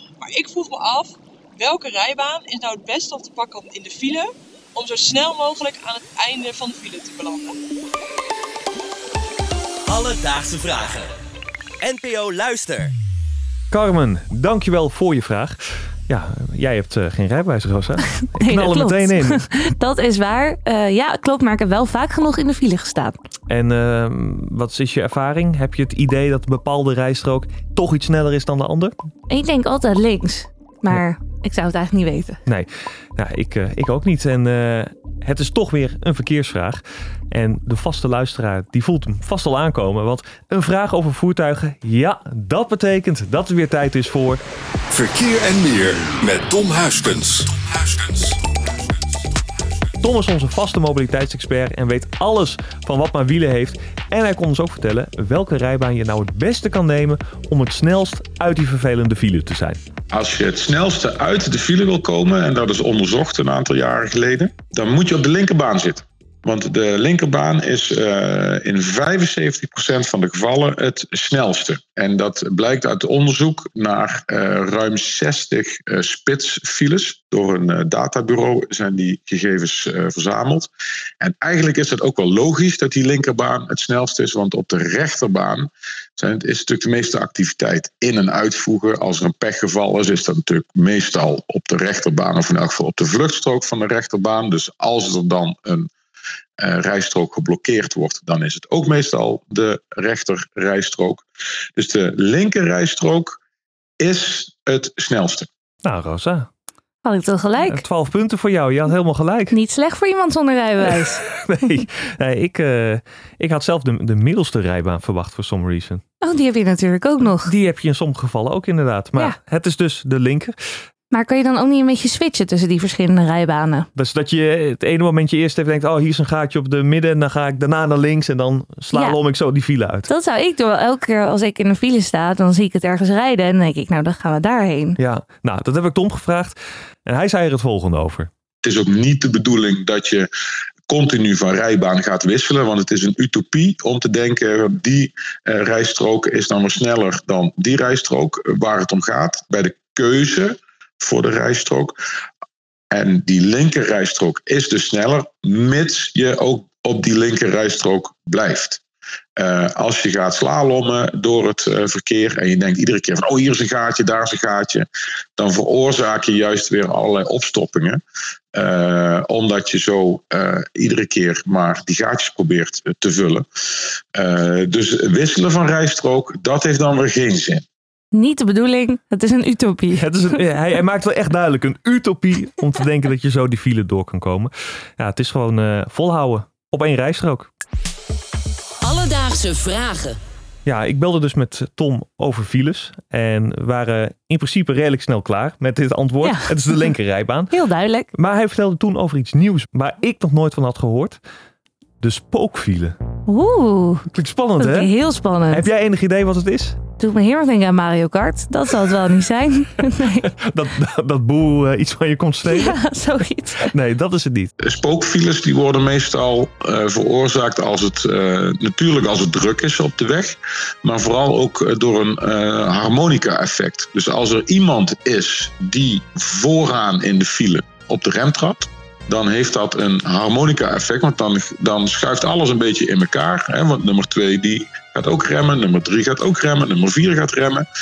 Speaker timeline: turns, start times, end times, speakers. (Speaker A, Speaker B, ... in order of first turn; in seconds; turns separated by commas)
Speaker A: 0.2-7.6, Speaker B: 9.9-11.1, Speaker B: 11.8-12.9, Speaker C: 13.7-19.4, Speaker D: 18.4-23.2, Speaker C: 23.5-28.9, Speaker D: 29.3-32.4, Speaker C: 32.5-44.4, Speaker E: 44.9-48.4, Speaker C: 50.0-59.8, Speaker F: 60.1-80.7, Speaker F: 81.2-95.9, Speaker F: 96.6-101.2, Speaker F: 101.8-103.4, Speaker F: 104.0-105.5, Speaker C: 105.8-106.5, Speaker D: 107.0-107.8, Speaker C: 107.6-109.6, Speaker D: 109.5-111.2, Speaker C: 111.0-116.0, Speaker D: 116.2-117.5, Speaker C: 117.4-120.5, Speaker D: 121.1-123.9, Speaker C: 124.0-130.1, Speaker D: 128.9-129.2, Speaker D: 130.1-135.0, Speaker C: 135.0-138.3, Speaker F: 138.6-140.3, Speaker F: 140.9-152.0, Speaker F: 152.9-158.8, Speaker F: 159.4-168.0, Speaker F: 168.5-173.5, Speaker F: 174.2-177.6, Speaker D: 178.1-180.3, Speaker C: 179.9-187.5, Speaker D: 188.8-190.2, Speaker C: 190.7-197.5, Speaker D: 196.2-196.9, Speaker D: 197.5-198.1, Speaker C: 198.1-201.2, Speaker C: 202.0-203.0, Speaker D: 203.3-204.1, Speaker C: 204.1-204.9, Speaker D: 204.6-205.7, Speaker C: 205.5-206.8, Speaker D: 207.0-210.3, Speaker C: 210.2-212.8, Speaker D: 212.5-213.7, Speaker C: 213.7-214.5, Speaker F: 214.6-237.7